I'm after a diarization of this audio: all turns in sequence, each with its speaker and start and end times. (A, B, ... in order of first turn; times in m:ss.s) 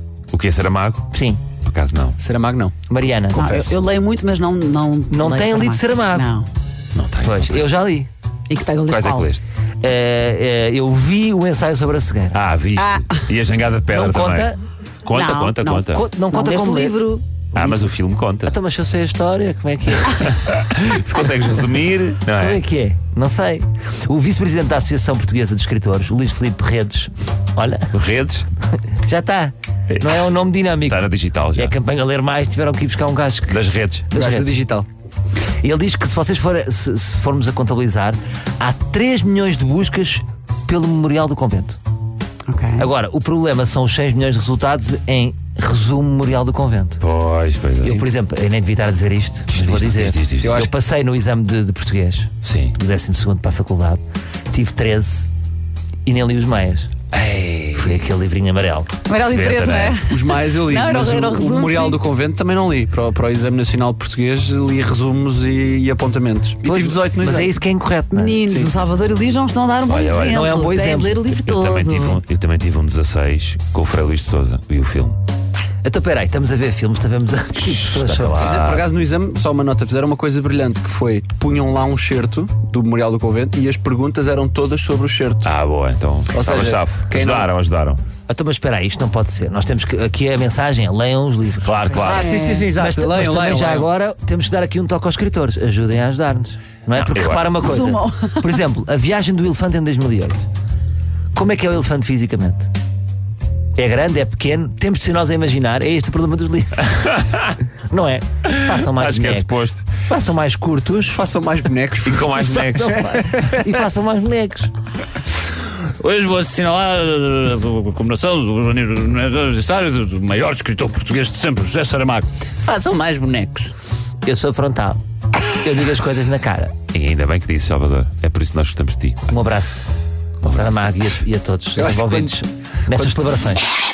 0:00.3-0:01.1 A
0:01.1-0:01.4 B
0:01.6-0:02.2 A
0:02.2-0:02.8 C
0:02.9-0:03.7 B
0:03.3-0:06.5 D
0:05.1-0:06.3 B
0:07.0-0:07.7 A
0:07.2-0:08.1 B
0:08.5-0:09.3 D
0:08.9-0:09.4 A
0:09.8-0:12.4 B
0:12.3-0:14.5 A
0:12.8-0:13.1 D
0:13.9-0:14.6 B
0:15.0-0:16.0 A
0:15.1-0:17.8 D
0:15.9-0:17.0 B
0:17.5-0:18.6 A
0:18.5-0:20.4 B
0:20.0-0:22.6 A
0:22.4-0:27.9 B
0:27.9-0:28.5 A
0:28.9-0:33.6 B
0:29.9-0:31.8 A
0:33.5-0:34.1 A
0:34.1-0:34.5 B
0:34.1-0:34.9 C
0:35.6-0:41.8 B
0:42.5-0:42.9 D
0:42.8-0:47.0 B
0:47.0-0:48.0 A
0:47.8-0:54.0 B
0:49.5-0:50.6 A
0:50.4-0:50.7 C
0:52.4-0:52.8 A
0:54.5-0:55.3 B
0:56.1-0:56.9 B
0:57.1-0:58.1 A
0:57.8-0:58.9 B
0:59.1-1:02.0 D
0:59.2-1:00.0 A
1:00.0-1:07.5 C
1:06.6-1:08.6 B
1:08.1-1:12.2 D
1:08.5-1:08.7 C
1:09.9-1:10.6 A
1:10.2-1:11.3 B
1:11.4-1:15.2 A
1:15.8-1:18.5 B
1:17.6-1:18.9 A
1:18.3-1:25.5 C
1:25.4-1:28.0 A
1:26.3-1:27.5 C
1:28.3-1:31.9 B
1:31.6-1:32.3 A
1:31.9-1:32.7 D
1:31.9-1:33.9 C
1:32.8-1:40.4 B
1:37.0-1:37.6 A
1:37.6-1:38.5 D
1:41.4-1:42.7 B
1:43.8-1:47.2 B
1:47.1-1:47.5 A
1:47.9-1:51.2 B
1:48.5-1:49.9 A
1:51.1-1:53.6 C
1:52.0-1:53.0 A
1:52.6-1:54.7 B
1:55.8-2:03.7 E
2:04.2-2:06.7 B
2:06.9-2:09.3 A
2:09.3-2:09.8 B
2:10.4-2:10.9 A
2:10.4-2:13.7 B
2:11.8-2:12.3 C